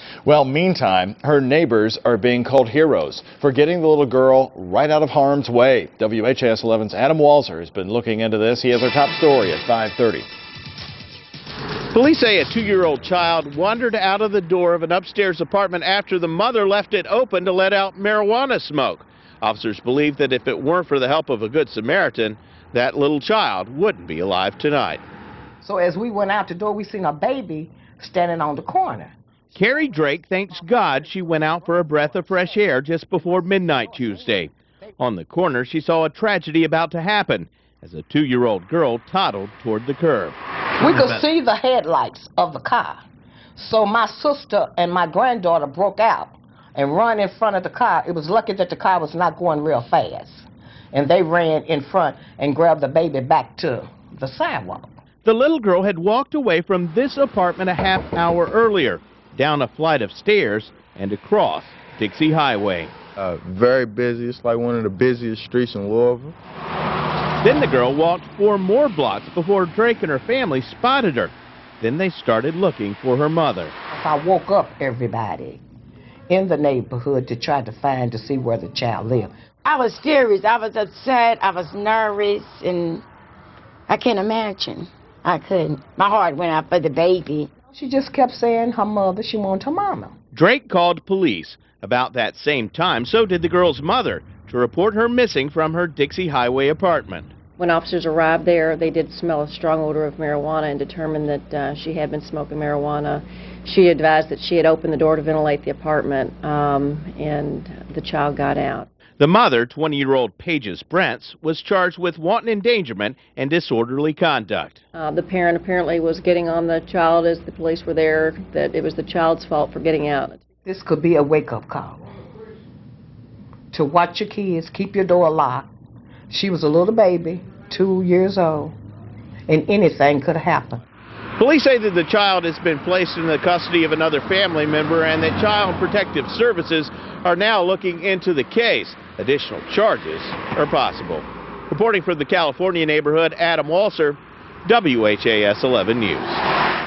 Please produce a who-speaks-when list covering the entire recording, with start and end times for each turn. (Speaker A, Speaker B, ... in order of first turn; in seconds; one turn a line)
Speaker A: 0.2-10.3
Speaker B: 11.9-25.0
Speaker C: 25.6-29.1
Speaker B: 29.6-40.4
Speaker C: 40.8-43.0
Speaker C: 43.6-54.9
Speaker B: 55.2-62.9
Speaker D: 63.2-66.3
Speaker B: 67.4-73.7
Speaker C: 73.9-75.6
Speaker C: 76.3-79.3
Speaker E: 79.7-83.0
Speaker E: 83.9-87.5
Speaker C: 87.7-90.1
Speaker B: 90.3-97.3
Speaker F: 97.6-108.9
Speaker B: 109.2-114.8
Speaker F: 115.0-120.4
Speaker C: 120.7-122.1
Speaker C: 123.7-125.7
Speaker C: 126.3-128.8
Speaker C: 129.5-130.8
Speaker B: 131.4-146.4